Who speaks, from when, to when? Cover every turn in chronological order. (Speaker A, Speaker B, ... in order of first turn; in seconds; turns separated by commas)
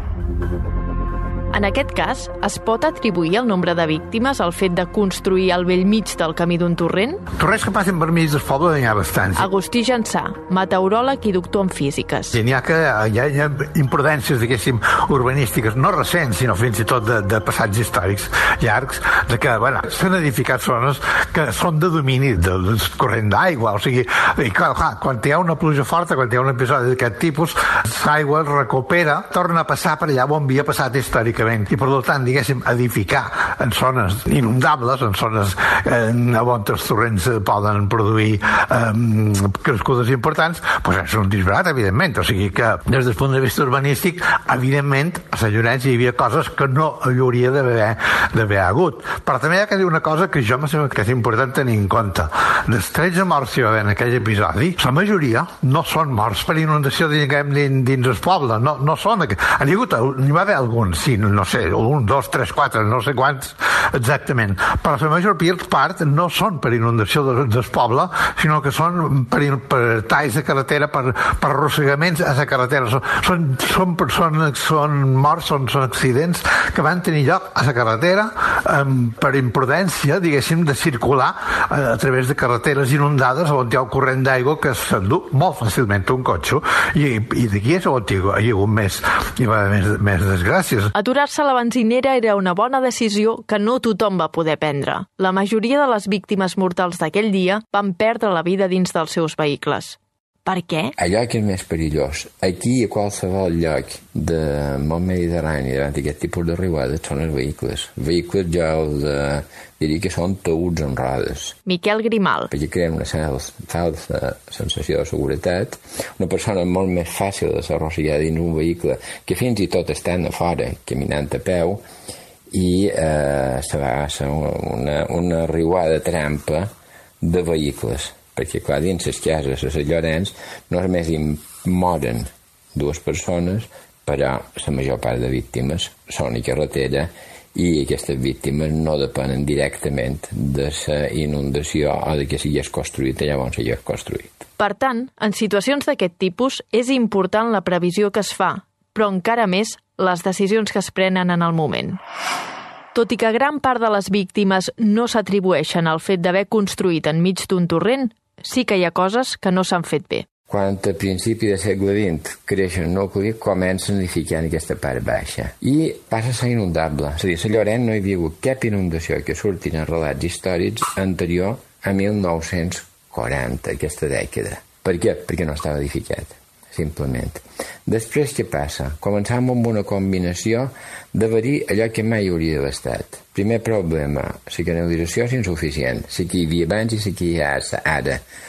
Speaker A: 1.5-7.2, Speaker B: 7.4-9.5, Speaker A: 9.3-12.4, Speaker B: 12.3-90.9, Speaker A: 91.0-100.9, Speaker C: 101.0-111.5, Speaker A: 111.7-112.5, Speaker C: 112.5-121.8, Speaker C: 122.5-126.7, Speaker C: 127.2-144.4, Speaker A: 144.6-152.0, Speaker A: 152.9-160.2, Speaker C: 160.5-188.2